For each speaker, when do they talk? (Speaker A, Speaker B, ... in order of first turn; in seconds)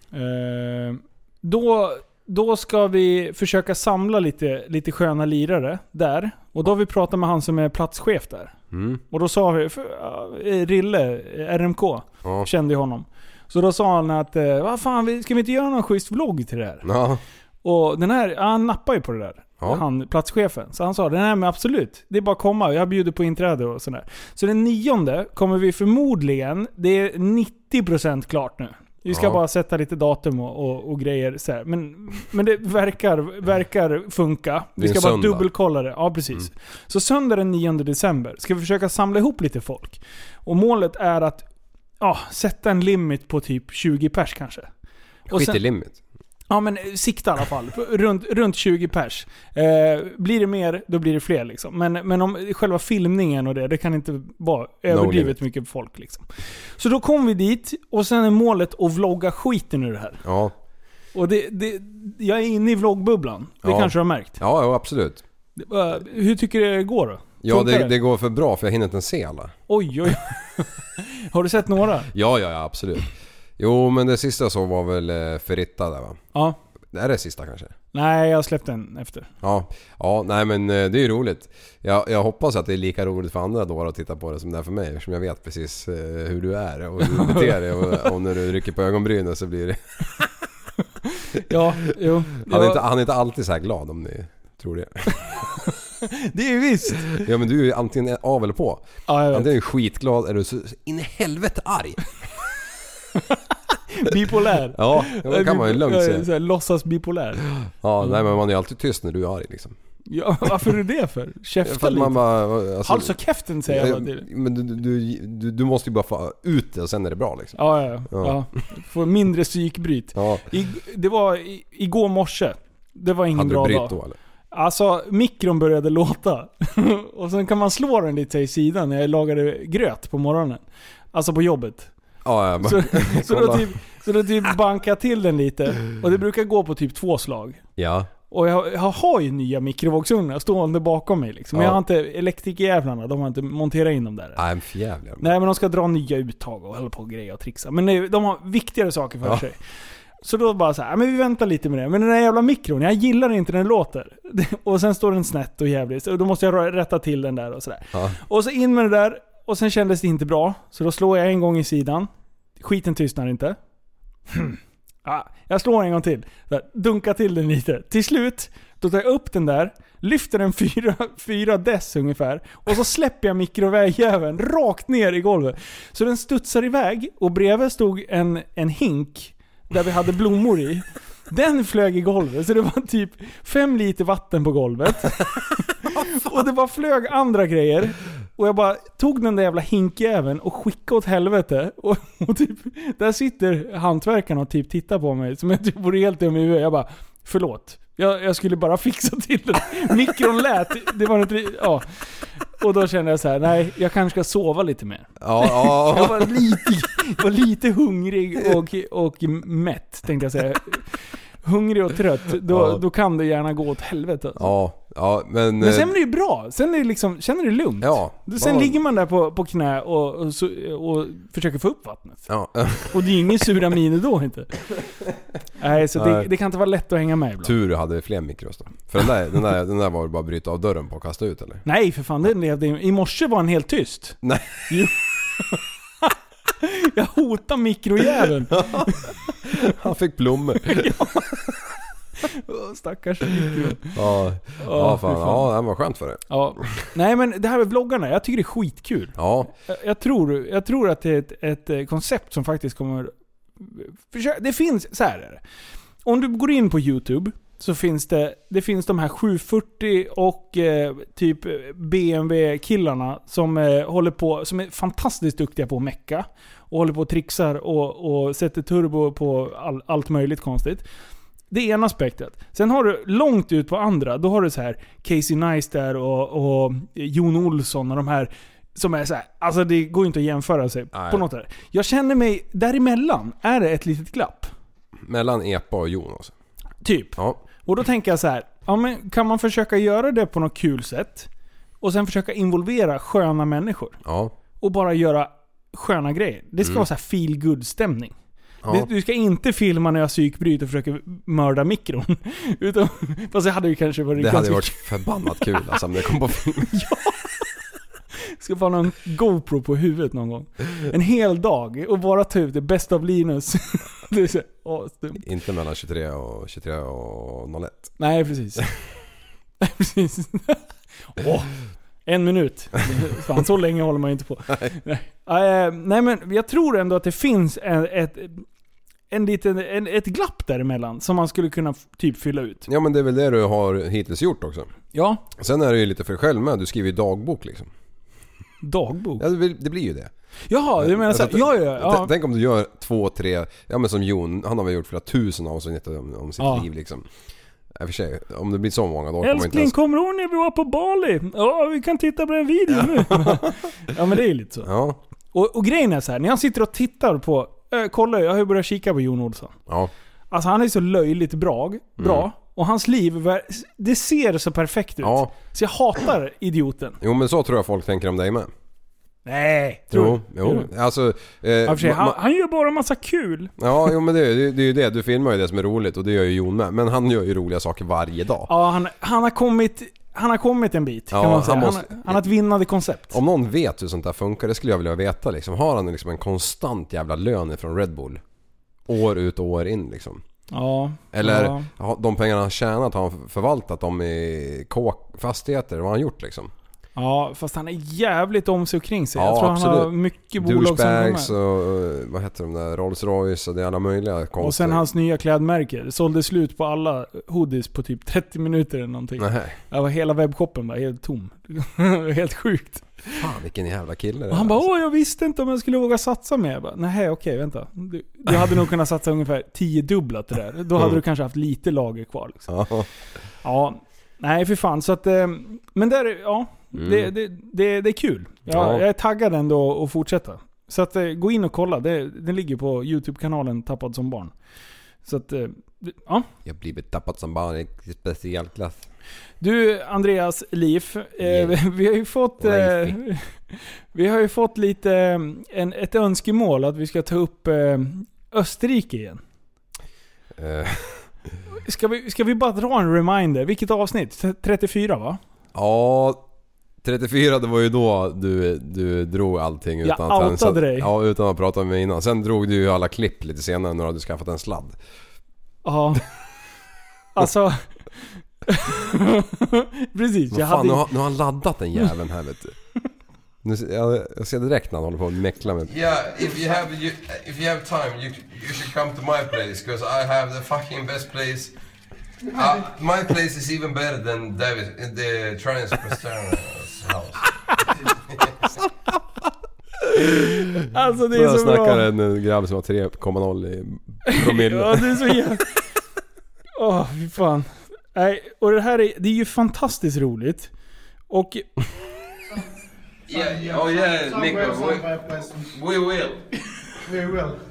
Speaker A: 0.1-8.5, 9.1-16.8, 17.6-41.4, 42.0-44.7, 45.3-45.6, 46.5-60.2, 61.1-64.4, 65.6-67.9, 69.7-72.1, 77.9-79.3, 87.0-88.0, 91.3-92.8, 96.0-97.1, 99.1-99.5, 103.9-107.4, 110.1-112.2, 112.8-114.2, 117.6-123.9, 124.5-131.9, 132.6-137.6, 138.3-144.4, 145.2-149.6, 150.2-163.6, 164.3-201.9, 202.6-214.5, 215.6-222.3, 222.8-224.6, 225.6-227.5, 231.6-239.1, 240.7-241.2, 242.2-243.9, 244.6-245.5, 246.3-255.4, 256.0-270.8, 271.5-284.5, 286.8-291.3, 291.8-294.0, 294.6-298.1, 298.7-304.8, 306.7-307.3, 308.4-315.2, 318.0-318.7, 319.6-320.6, 321.1-328.4, 329.1-332.7, 334.9-335.2, 338.6-339.2, 340.5-342.1, 346.4-346.6, 349.2-354.7, 355.3-359.6, 360.3-367.0, 369.2-370.7, 371.6-373.5, 378.5-383.2, 390.5-391.7, 396.9-401.3, 404.4-413.2, 414.3-422.5, 423.4-434.3, 435.0-436.3, 439.4-449.2, 451.6-455.2, 459.8-460.9, 465.6-466.0, 467.1-470.9, 490.7-491.9, 494.1-495.5, 496.6-500.5, 501.1-501.5
Speaker B: 8.7-9.0, 16.8-17.2, 29.1-29.4, 34.8-35.5, 45.3-46.0, 54.9-55.4, 60.2-60.5, 63.6-65.2, 67.4-69.5, 72.1-73.1, 73.6-76.2, 76.9-77.7, 79.4-90.3, 92.3-95.5, 97.0-102.0, 104.7-106.3, 107.6-109.8, 111.6-113.1, 113.7-117.6, 118.1-118.4, 120.1-120.4, 123.3-124.2, 132.2-133.7, 137.8-138.1, 141.5-141.8, 144.4-145.3, 205.2-206.3, 212.5-212.8, 214.4-215.9, 217.8-218.8, 222.3-222.9, 225.9-226.3, 227.4-231.6, 234.2-234.5, 238.7-238.9, 239.4-241.4, 243.9-246.8, 249.2-249.5, 280.9-281.2, 285.0-286.3, 294.0-294.3, 298.6-298.9, 304.1-306.8, 315.2-317.9, 332.7-334.7, 335.4-337.7, 339.2-340.1, 340.8-347.1, 347.8-349.7, 352.7-353.5, 354.6-355.0, 362.0-362.3, 365.0-365.3, 367.0-368.5, 369.9-372.2, 373.6-378.5, 381.1-382.2, 383.1-388.2, 388.9-390.2, 391.1-396.5, 399.1-404.8, 409.2-409.6, 413.1-414.6, 422.5-422.9, 426.7-427.1, 428.5-428.8, 436.4-438.9, 441.2-441.6, 442.4-443.0, 450.4-451.1, 455.5-456.2, 456.8-464.8, 470.3-472.6, 473.4-475.7, 491.1-495.2
Speaker C: 475.7-481.5, 482.3-487.2, 503.1-506.3
Speaker D: 503.1-505.5, 506.8-507.4